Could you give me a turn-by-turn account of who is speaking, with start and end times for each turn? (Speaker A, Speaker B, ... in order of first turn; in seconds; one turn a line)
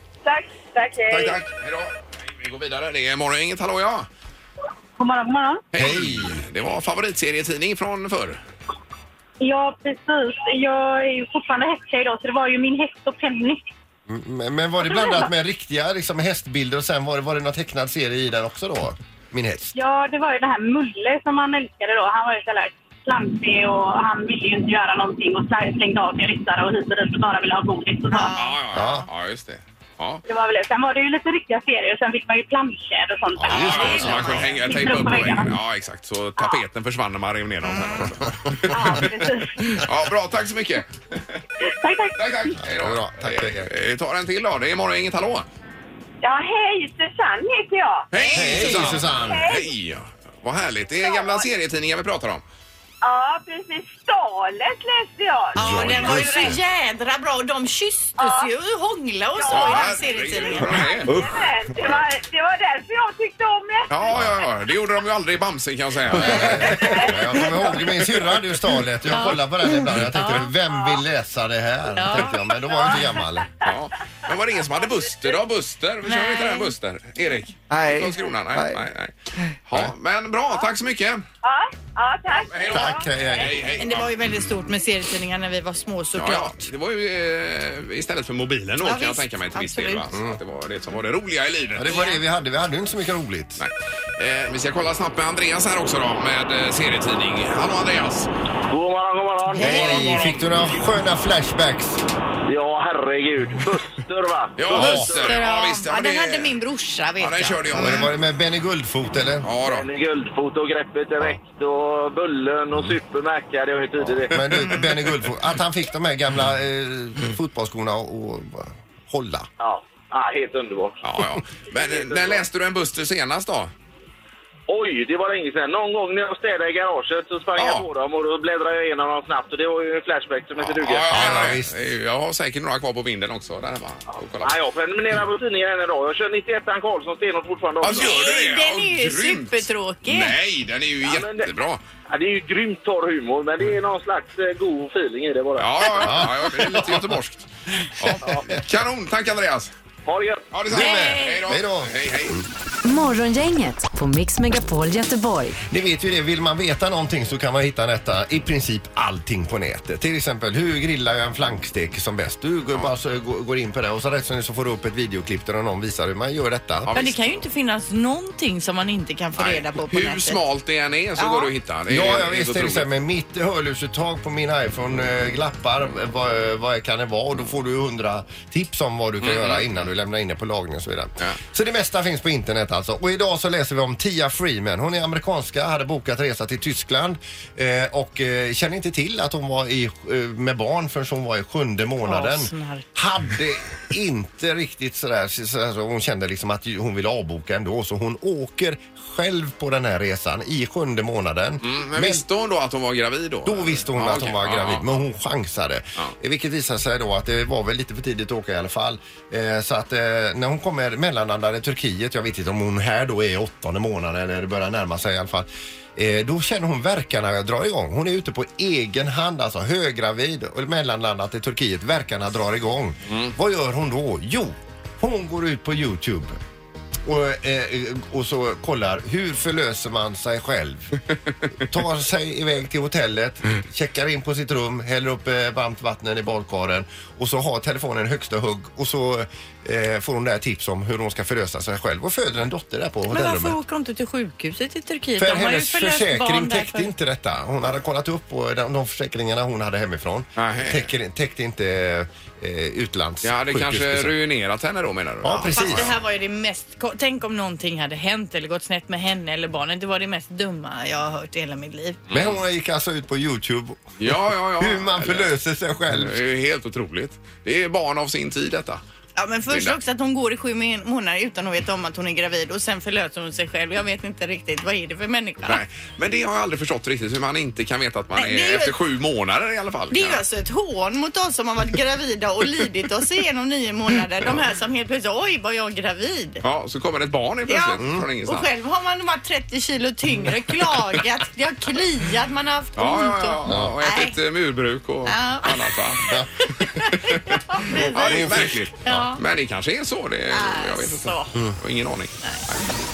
Speaker A: 0.2-1.4
Speaker B: 1.1-4.1
Speaker C: 5.0-5.6
Speaker B: 5.7-8.4
Speaker D: 5.7-6.4
Speaker C: 9.4-13.6
Speaker D: 14.1-19.7
Speaker C: 14.8-15.3
Speaker C: 19.7-28.4
Speaker E: 28.1-29.0
Speaker B: 28.3-30.2
Speaker D: 28.7-29.1
Speaker C: 30.2-35.5
Speaker D: 33.4-34.5
Speaker B: 33.5-41.4
Speaker E: 33.5-34.7
Speaker E: 37.7-38.0
Speaker C: 38.7-39.8
Speaker C: 41.8-42.6
Speaker B: 42.2-45.5
Speaker D: 42.6-43.7
Speaker A: 46.2-48.1
Speaker B: 48.1-52.4
Speaker E: 48.2-48.8
Speaker D: 48.3-49.5
Speaker A: 49.2-49.7
Speaker A: 51.0-51.5
Speaker A: 53.0-56.5
Speaker D: 55.5-56.6
Speaker E: 55.5-60.9
Speaker A: 58.2-58.5
Speaker A: 59.4-64.1
Speaker B: 59.5-61.2
Speaker B: 63.9-67.0
Speaker D: 66.1-73.5
Speaker A: 66.7-67.5
Speaker E: 69.1-70.5
Speaker E: 71.9-72.9
Speaker A: 72.7-73.0
Speaker B: 73.6-79.1
Speaker A: 74.8-75.3
Speaker E: 76.0-76.7
Speaker B: 79.7-81.2
Speaker A: 81.4-83.1
Speaker B: 82.5-84.4
Speaker D: 82.7-83.6
Speaker E: 83.8-86.7
Speaker B: 86.1-92.1
Speaker E: 88.8-90.1
Speaker D: 90.1-90.4
Speaker D: 91.8-93.6
Speaker E: 91.9-92.2
Speaker B: 93.6-98.3
Speaker F: 98.7-100.2
Speaker D: 99.6-102.0
Speaker E: 99.6-100.2
Speaker B: 99.6-100.6
Speaker F: 102.5-105.4
Speaker B: 104.6-106.6
Speaker D: 104.7-105.1
Speaker E: 105.1-107.9
Speaker B: 107.2-108.1
Speaker D: 107.7-109.5
Speaker B: 109.4-109.9
Speaker F: 109.6-114.4
Speaker D: 114.3-119.5
Speaker F: 119.6-121.0
Speaker B: 121.0-123.7
Speaker F: 121.7-122.4
Speaker F: 124.7-131.5
Speaker B: 127.5-127.8
Speaker B: 130.6-134.6
Speaker D: 131.1-131.7
Speaker F: 134.4-138.2
Speaker B: 137.8-141.8
Speaker E: 137.8-140.3
Speaker F: 141.0-141.5
Speaker F: 142.1-146.1
Speaker B: 145.6-149.7
Speaker D: 146.0-147.2
Speaker F: 148.2-148.4
Speaker F: 150.1-150.4
Speaker B: 150.5-152.4
Speaker D: 150.7-152.5
Speaker E: 150.7-151.4
Speaker G: 152.8-155.6
Speaker D: 155.7-166.9
Speaker B: 166.8-167.4
Speaker E: 166.9-170.4
Speaker B: 169.4-172.9
Speaker E: 171.2-171.5
Speaker D: 171.9-202.2
Speaker B: 179.2-179.7
Speaker E: 192.0-192.8
Speaker B: 201.6-205.0
Speaker D: 203.4-226.4
Speaker B: 223.1-223.3
Speaker D: 227.0-231.0
Speaker D: 231.6-243.6
Speaker E: 243.1-246.9
Speaker D: 245.2-254.1
Speaker B: 250.4-250.9
Speaker B: 253.2-255.9
Speaker D: 255.2-255.9
Speaker E: 255.5-262.0
Speaker B: 262.1-262.4
Speaker D: 262.1-266.2
Speaker B: 264.0-265.3
Speaker B: 265.9-268.8
Speaker E: 269.1-275.6
Speaker B: 269.5-269.8
Speaker B: 275.4-280.2
Speaker E: 278.1-278.8
Speaker E: 279.9-286.4
Speaker B: 286.4-288.5
Speaker E: 287.5-294.1
Speaker D: 287.8-288.1
Speaker B: 292.8-302.7
Speaker D: 293.4-293.8
Speaker E: 295.1-295.8
Speaker E: 296.5-299.2
Speaker D: 298.0-299.0
Speaker E: 300.3-301.4